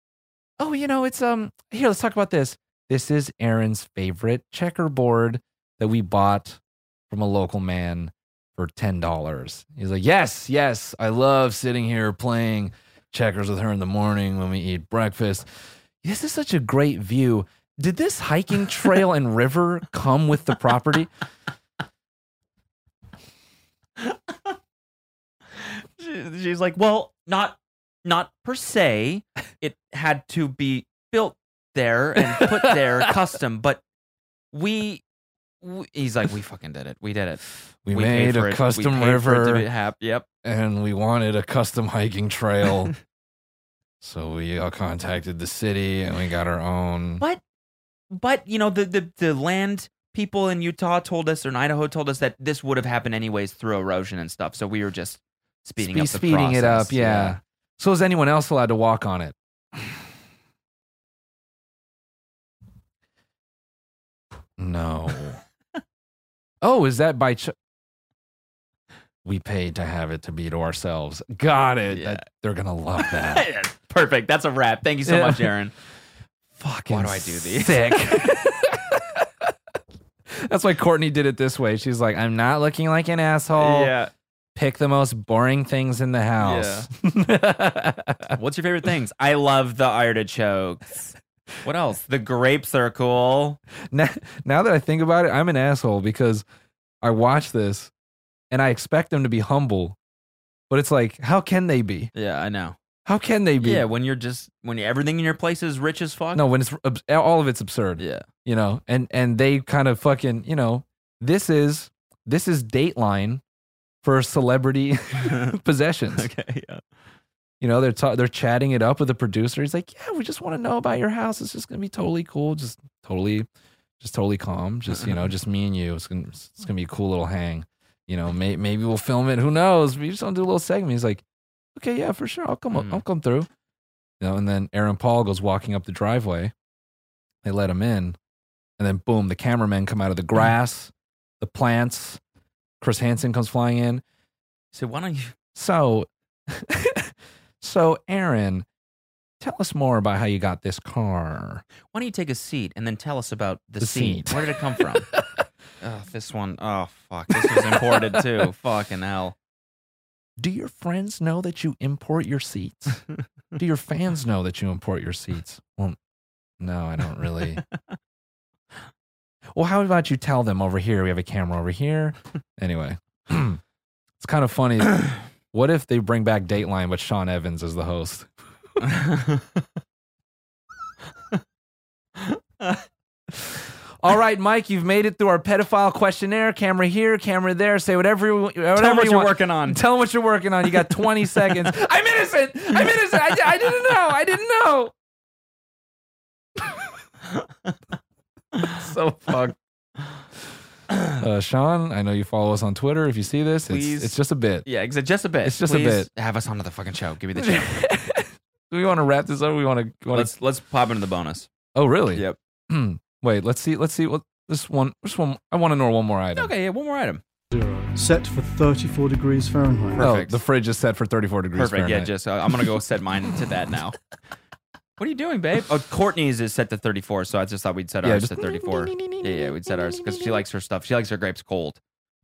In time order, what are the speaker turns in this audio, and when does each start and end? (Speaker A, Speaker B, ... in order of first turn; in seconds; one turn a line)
Speaker A: 0.6-15.5
Speaker A: 16.0-21.1
Speaker B: 25.6-33.8
Speaker A: 32.3-33.1
Speaker B: 34.5-35.0
Speaker B: 35.6-40.3
Speaker A: 37.9-39.7
Speaker A: 40.4-42.9
Speaker A: 44.0-47.2
Speaker B: 48.1-57.4
Speaker A: 55.8-60.0
Speaker A: 64.6-65.4
Speaker A: 66.6-67.5
Speaker A: 69.2-73.5
Speaker B: 71.9-72.2
Speaker B: 73.0-75.7
Speaker A: 75.1-75.5
Speaker A: 76.6-79.5
Speaker B: 76.9-78.1
Speaker A: 80.3-83.9
Speaker B: 83.6-84.1
Speaker A: 84.5-88.4
Speaker B: 86.4-86.9
Speaker B: 88.3-93.6
Speaker A: 93.9-96.4
Speaker A: 97.0-97.9
Speaker A: 98.5-100.0
Speaker A: 100.7-102.1
Speaker B: 102.1-102.8
Speaker A: 103.1-103.9
Speaker B: 103.6-106.4
Speaker A: 106.3-113.4
Speaker B: 108.0-108.3
Speaker A: 114.0-116.3
Speaker B: 115.2-115.5
Speaker B: 116.1-116.8
Speaker A: 117.6-123.5
Speaker A: 124.0-131.2
Speaker A: 131.7-133.5
Speaker B: 132.7-133.0
Speaker A: 134.2-136.5
Speaker A: 137.4-138.2
Speaker A: 138.8-142.2
Speaker A: 142.8-144.0
Speaker B: 144.7-145.3
Speaker A: 145.6-148.7
Speaker A: 149.4-151.6
Speaker B: 151.9-155.1
Speaker A: 153.8-155.4
Speaker B: 155.8-159.3
Speaker A: 157.3-158.4
Speaker A: 160.4-163.0
Speaker A: 163.6-166.0
Speaker A: 166.6-167.6
Speaker A: 169.5-173.6
Speaker A: 174.2-178.3
Speaker B: 178.8-179.4
Speaker B: 182.2-182.8
Speaker A: 184.0-194.9
Speaker B: 188.8-189.8
Speaker A: 198.7-199.6
Speaker A: 201.2-204.7
Speaker B: 203.7-207.7
Speaker A: 205.4-206.1
Speaker A: 207.4-210.3
Speaker B: 210.1-211.5
Speaker A: 211.7-216.5
Speaker B: 216.3-217.2
Speaker C: 217.5-220.1
Speaker B: 219.9-220.4
Speaker A: 220.0-222.1
Speaker B: 221.6-224.0
Speaker B: 225.0-231.8
Speaker A: 228.0-230.4